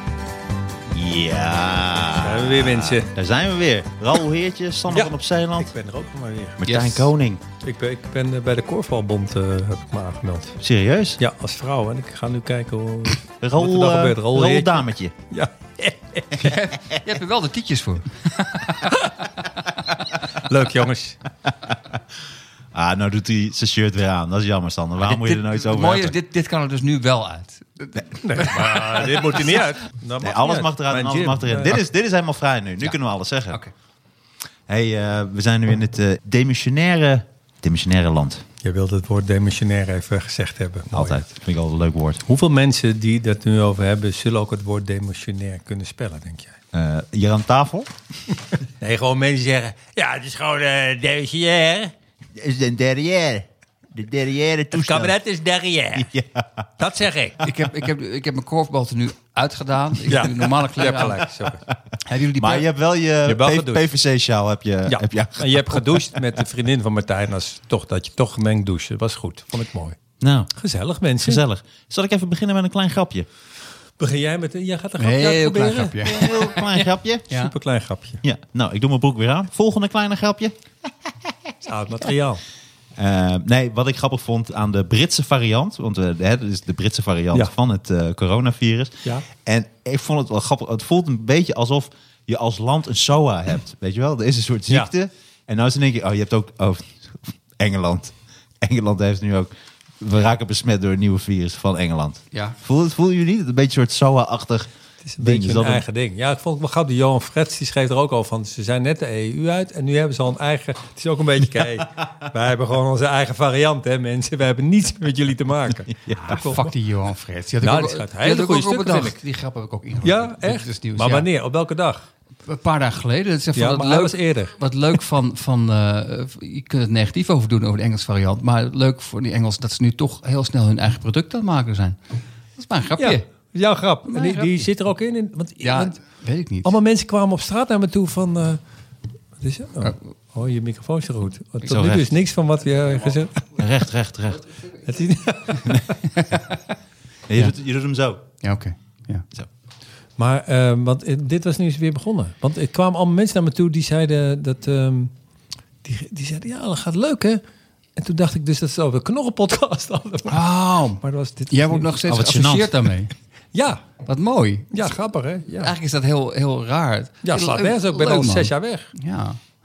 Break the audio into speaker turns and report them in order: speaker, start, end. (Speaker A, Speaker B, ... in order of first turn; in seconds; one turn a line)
Speaker A: 0.9-5.7
Speaker B: 2.2-3.1
Speaker B: 4.9-6.6
Speaker A: 6.6-7.4
Speaker C: 6.6-7.1
Speaker B: 7.6-10.6
Speaker A: 10.6-11.2
Speaker B: 11.2-16.6
Speaker A: 13.4-15.1
Speaker C: 16.4-18.9
Speaker B: 18.9-19.3
Speaker B: 20.4-21.2
Speaker A: 22.7-26.1
Speaker C: 25.1-29.7
Speaker B: 28.2-31.8
Speaker A: 30.2-33.6
Speaker A: 34.7-38.4
Speaker B: 38.6-41.3
Speaker A: 40.9-42.2
Speaker B: 42.2-46.6
Speaker A: 46.7-47.9
Speaker B: 48.8-51.9
Speaker A: 52.4-55.1
Speaker B: 54.7-56.1
Speaker A: 56.0-56.5
Speaker B: 56.8-57.5
Speaker C: 57.4-61.2
Speaker B: 60.1-61.6
Speaker C: 62.0-62.7
Speaker A: 62.4-66.2
Speaker B: 63.2-63.9
Speaker B: 64.9-70.0
Speaker A: 70.2-70.5
Speaker B: 70.5-71.4
Speaker A: 71.2-73.3
Speaker B: 74.0-76.0
Speaker C: 75.0-77.5
Speaker A: 76.0-77.3
Speaker B: 77.3-78.2
Speaker A: 78.2-80.5
Speaker B: 81.6-82.4
Speaker A: 83.0-104.7
Speaker B: 105.0-116.7
Speaker A: 105.2-105.8
Speaker A: 115.9-116.5
Speaker C: 116.3-121.3
Speaker B: 117.6-119.2
Speaker B: 120.0-122.1
Speaker C: 122.5-132.0
Speaker B: 123.5-124.6
Speaker C: 132.6-133.2
Speaker B: 133.0-136.0
Speaker C: 134.1-134.7
Speaker C: 135.6-136.7
Speaker B: 136.6-138.6
Speaker B: 139.4-143.5
Speaker A: 141.7-142.1
Speaker A: 143.6-144.4
Speaker B: 144.8-146.1
Speaker C: 146.2-146.6
Speaker A: 147.3-148.2
Speaker C: 148.4-149.2
Speaker B: 150.2-155.1
Speaker B: 155.8-157.4
Speaker B: 158.0-160.4
Speaker C: 160.3-163.1
Speaker B: 161.0-161.9
Speaker A: 162.1-162.9
Speaker B: 163.5-163.8
Speaker C: 164.1-164.9
Speaker B: 164.7-165.7
Speaker C: 165.6-169.4
Speaker B: 167.2-168.9